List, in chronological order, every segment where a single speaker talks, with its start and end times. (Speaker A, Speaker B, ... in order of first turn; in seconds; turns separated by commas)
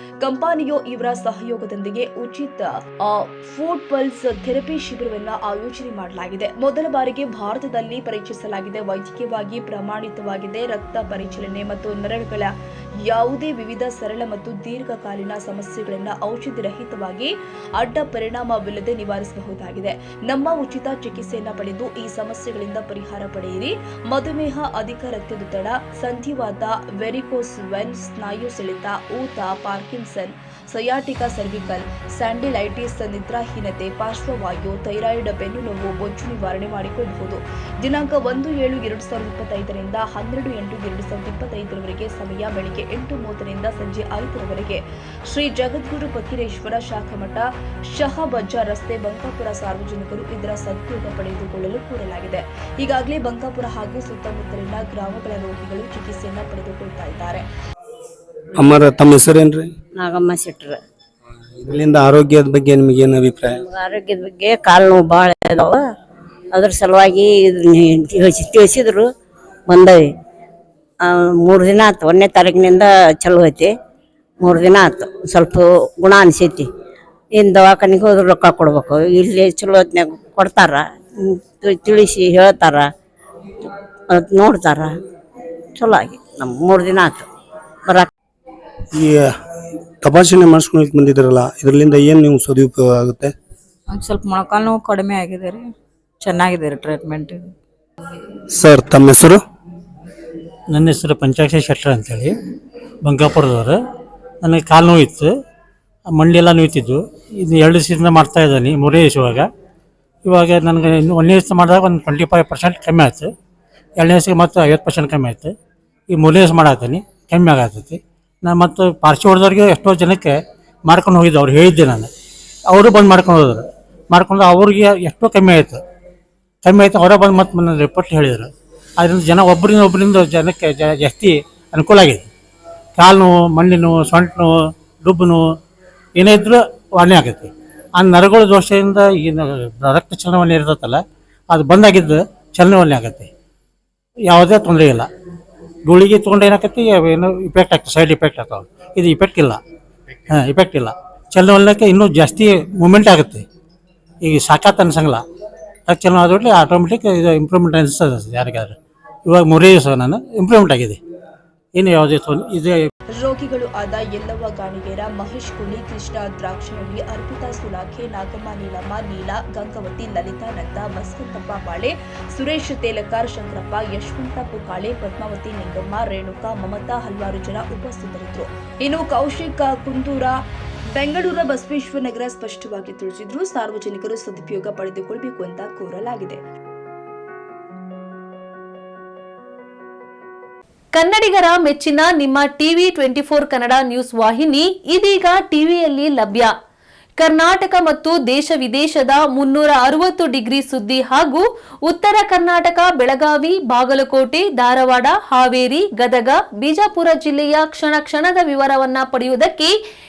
Speaker A: 0.2-12.5, Speaker A: 13.0-57.4, Speaker B: 58.5-59.7, Speaker C: 59.9-60.8, Speaker B: 61.6-63.6, Speaker C: 63.6-65.8, Speaker C: 66.5-69.1, Speaker C: 69.7-70.1, Speaker C: 71.0-73.7, Speaker C: 74.4-76.7, Speaker C: 77.3-82.9, Speaker C: 84.1-85.0, Speaker C: 85.8-87.3, Speaker B: 88.9-89.3, Speaker B: 90.0-93.3, Speaker D: 93.9-95.7, Speaker D: 96.2-97.5, Speaker B: 98.5-99.4, Speaker E: 100.7-102.3, Speaker E: 103.0-103.8, Speaker E: 104.4-105.3, Speaker E: 106.1-109.5, Speaker E: 110.2-113.3, Speaker E: 114.0-115.5, Speaker E: 116.1-122.1, Speaker E: 122.7-125.8, Speaker E: 126.6-132.3, Speaker E: 133.0-135.4, Speaker E: 136.2-143.3, Speaker E: 144.3-145.1, Speaker E: 145.8-149.6, Speaker E: 150.3-153.4, Speaker E: 154.2-155.2, Speaker E: 155.9-161.0, Speaker E: 161.8-162.8, Speaker A: 163.2-180.4, Speaker A: 180.9-186.4, Speaker F: 190.9-196.5, Speaker F: 197.2-209.7